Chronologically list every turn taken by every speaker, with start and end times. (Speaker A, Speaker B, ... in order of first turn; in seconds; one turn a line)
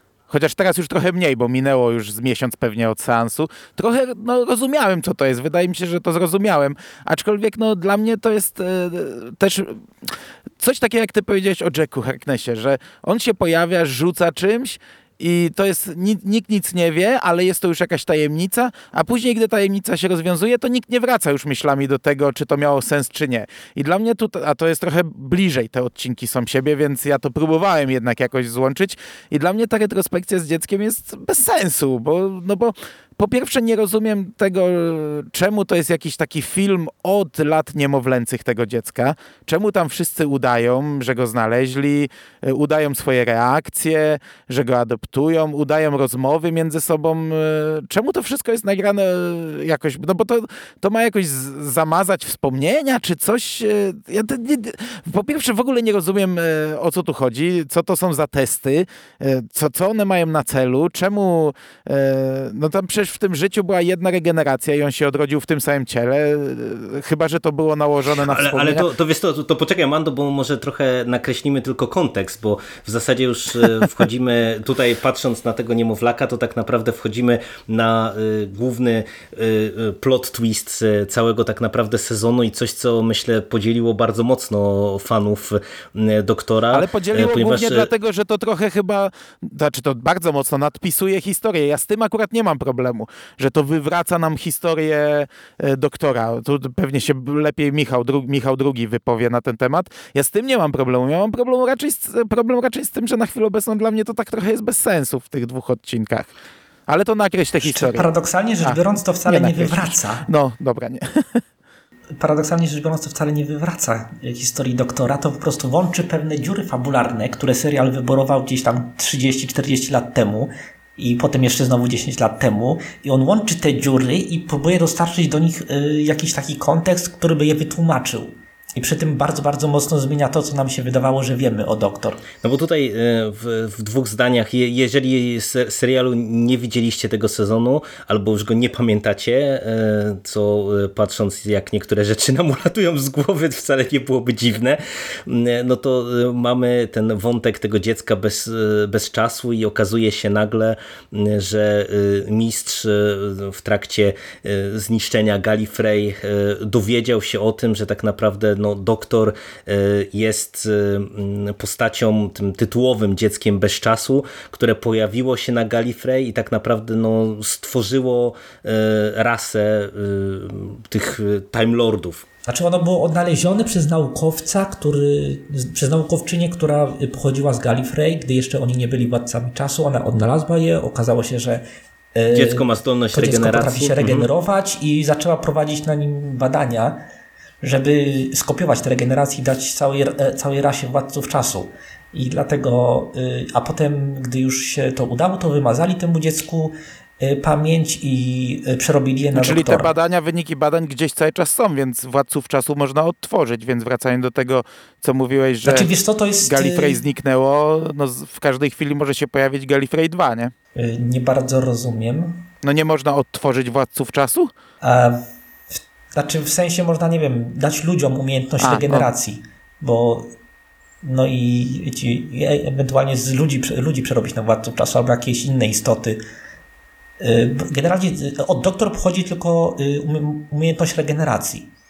Speaker A: 0.3-9.8
Speaker A: 10.6-68.9
Speaker B: 68.2-87.9
Speaker A: 86.7-106.3
Speaker A: 106.9-108.1
Speaker C: 107.6-110.2
Speaker A: 108.6-111.4
Speaker C: 112.2-132.2
Speaker B: 132.4-172.2
Speaker C: 172.4-181.6
Speaker C: 182.1-187.0
Speaker B: 182.3-184.3
Speaker C: 187.6-199.9
Speaker A: 199.3-205.9
Speaker C: 205.6-207.0
Speaker A: 206.4-210.5
Speaker C: 210.7-212.4
Speaker A: 212.6-214.5
Speaker C: 214.8-215.2
Speaker C: 216.2-220.3
Speaker A: 218.6-219.1
Speaker C: 221.0-226.2
Speaker C: 227.2-231.7